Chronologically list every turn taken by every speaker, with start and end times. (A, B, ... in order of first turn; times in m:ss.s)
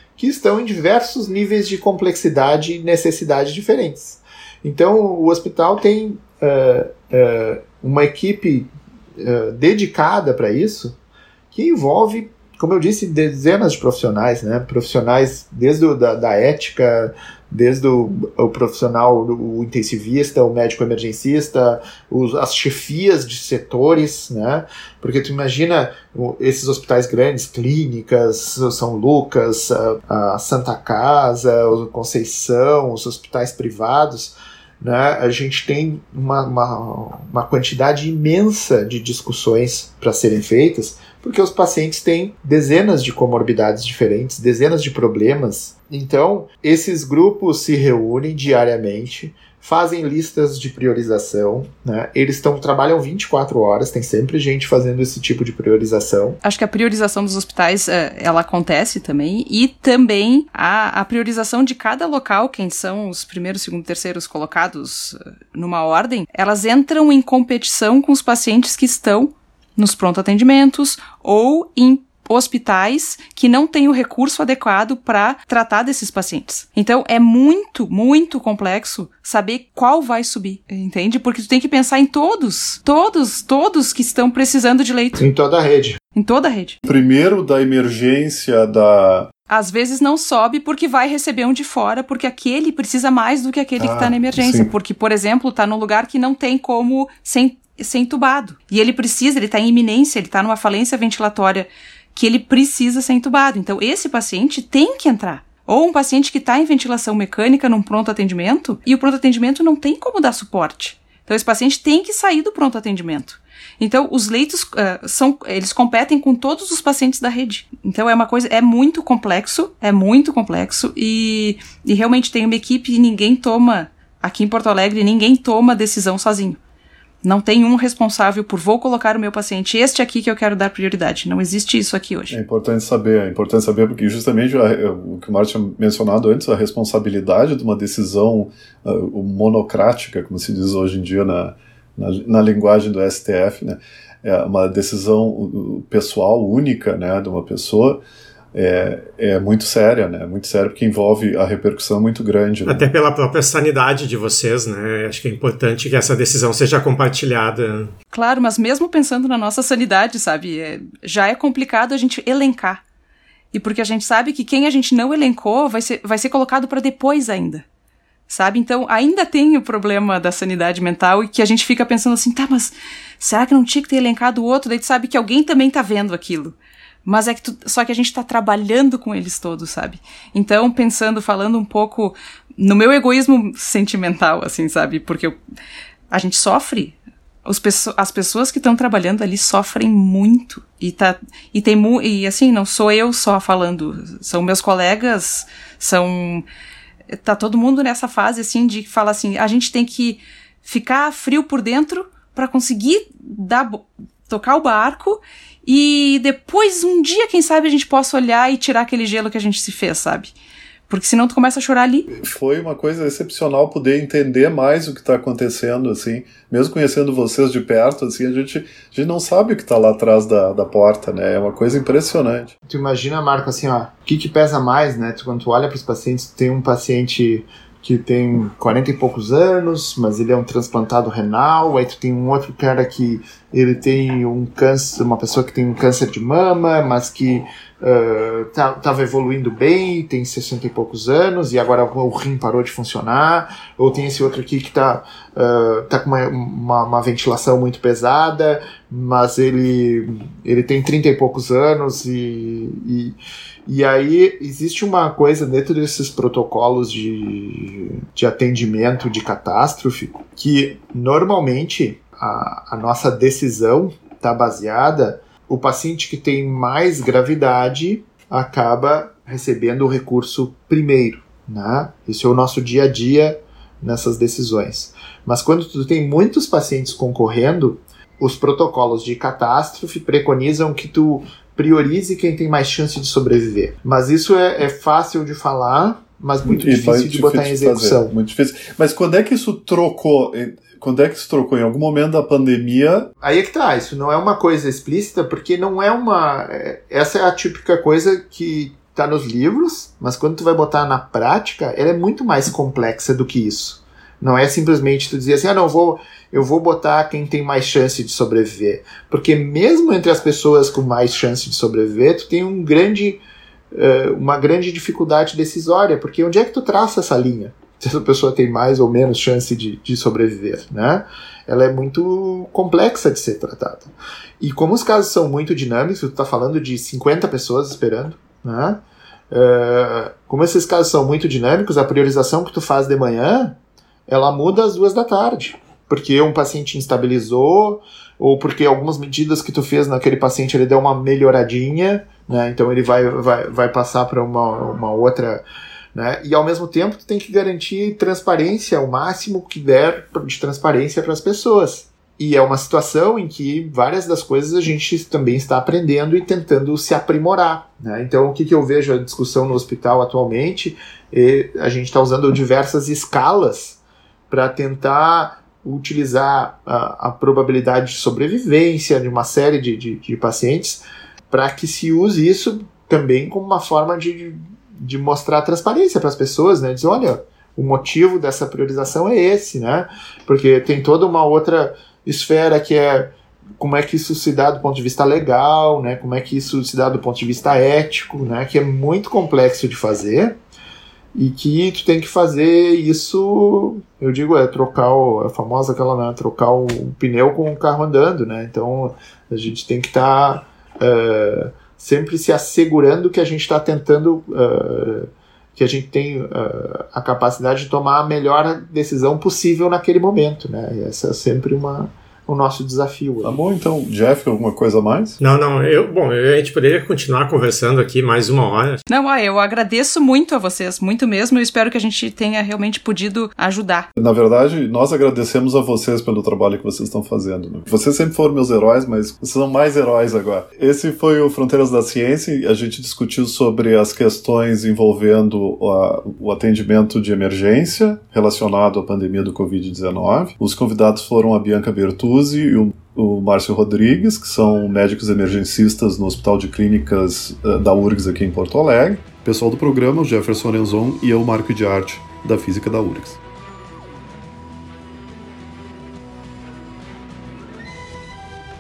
0:00.2-0:11.0 A
0:11.5-0:56.4 A
0:56.4-1:25.3 B
1:25.2-1:26.0 A
1:26.2-1:26.8 B
1:26.9-1:29.3 C
1:29.5-2:06.6 B
1:33.8-1:34.7 C
2:07.2-2:12.4 B
2:12.3-2:28.0 C
2:28.5-2:32.9 C
2:32.7-2:37.9 D
2:38.1-2:42.8 B
2:43.5-2:47.6 B
2:48.3-3:05.4 B
3:06.1-3:16.5 B
3:17.1-3:30.3 B
3:30.9-3:32.2 B
3:32.2-3:42.5 C
3:42.7-4:48.1 A
4:46.5-4:53.1 C
4:53.2-5:45.4 A
5:45.9-6:30.4 A
6:31.2-6:53.4 A
6:53.2-6:55.2 C
6:55.2-6:58.8 D
6:58.9-7:03.9 B
7:04.0-7:33.2 C